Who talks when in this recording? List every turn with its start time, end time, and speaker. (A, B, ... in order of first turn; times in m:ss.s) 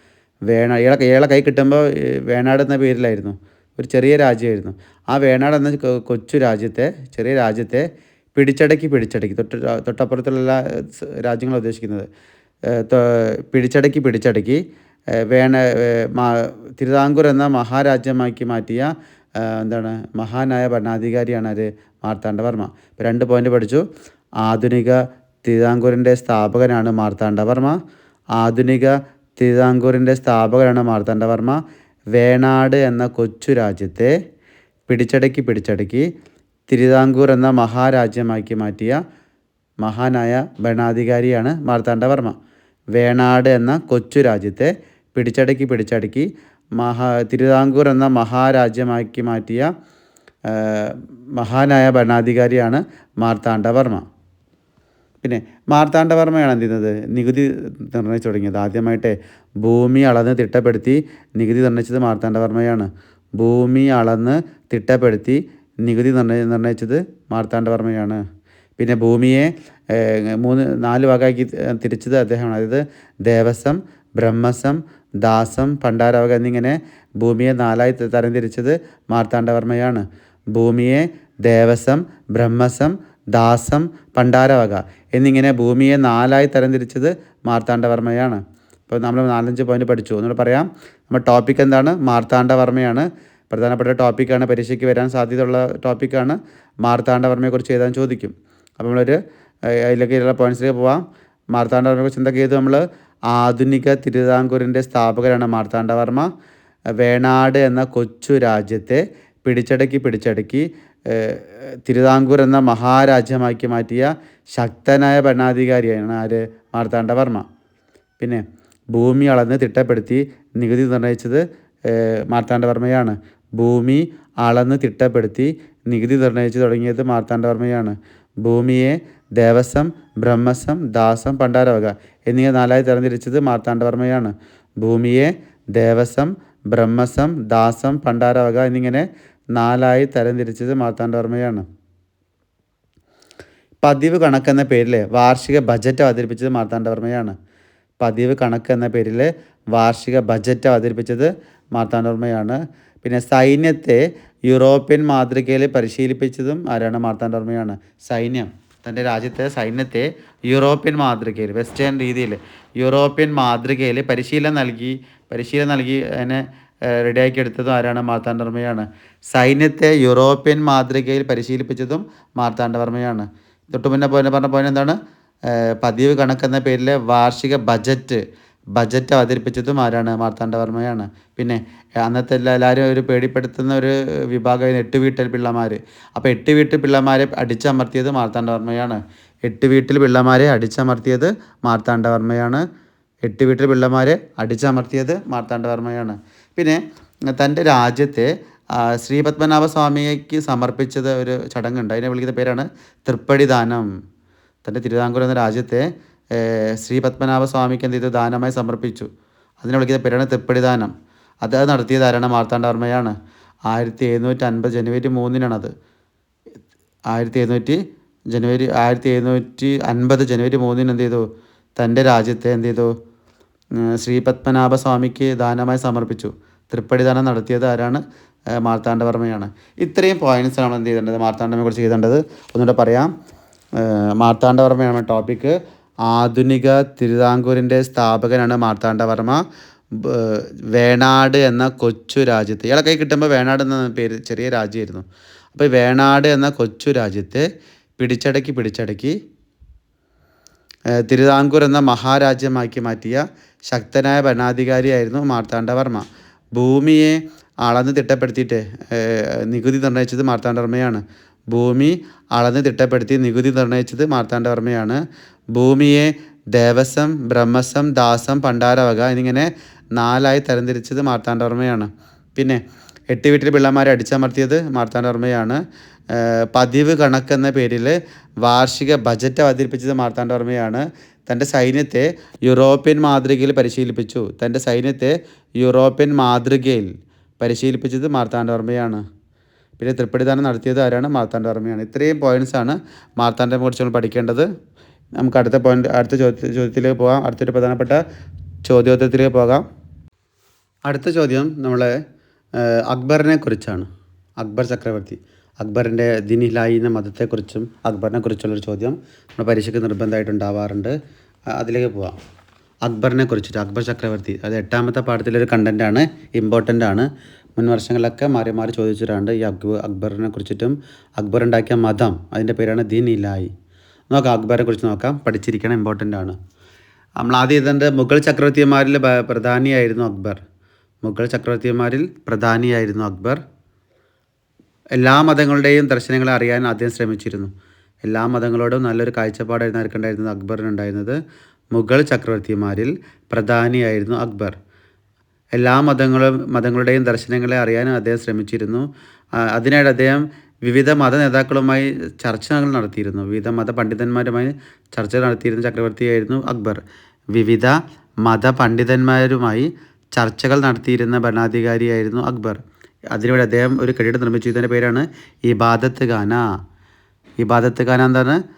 0:00.5-0:12.1 A
0:12.7-0:14.6 A
0:15.3-0:23.8 A
0:24.4-0:27.8 A
0:28.4-0:31.6 A
0:32.2-0:34.1 A
0:34.9-0:36.1 A
0:36.7-0:39.0 A
0:39.8-0:42.4 A
0:43.0-0:46.3 A
0:46.8-0:49.7 A
0:50.5-0:54.0 A
0:55.2-1:08.2 A
1:08.8-1:39.2 A
1:39.7-1:41.0 A
1:41.5-1:46.3 A
1:47.0-1:57.4 A
1:58.9-2:21.7 A
2:23.8-2:27.4 A
2:28.0-2:55.0 A
2:55.5-2:58.2 A
2:58.8-3:12.6 A
3:13.2-3:23.9 A
3:24.6-3:29.1 A
3:29.6-3:30.9 A
3:31.4-3:33.1 A
3:33.7-3:35.7 A
3:37.1-3:37.8 A
3:38.3-3:41.2 A
3:41.8-3:42.9 A
3:43.8-3:48.0 A
3:48.6-3:53.1 A
3:53.8-3:59.4 A
4:00.0-4:07.5 A
4:08.0-4:09.2 A
4:11.0-4:16.0 A
4:16.6-4:25.0 A
4:25.6-4:46.9 A
4:47.4-4:49.0 A
4:49.8-4:54.5 A
4:55.2-4:58.0 A
4:58.7-4:59.6 A
5:00.9-5:01.9 A
5:02.6-5:03.9 A
5:04.4-5:11.0 A
5:11.6-5:12.2 A
5:12.9-5:23.5 A
5:24.1-5:26.4 A
5:27.2-5:30.4 A
5:31.0-5:33.4 A
5:35.0-5:37.5 A
5:38.0-5:41.2 A
5:41.7-5:44.6 A
5:45.6-5:48.9 A
5:49.4-5:56.8 A
5:57.3-6:02.6 A
6:03.1-6:06.4 A
6:07.4-6:08.4 A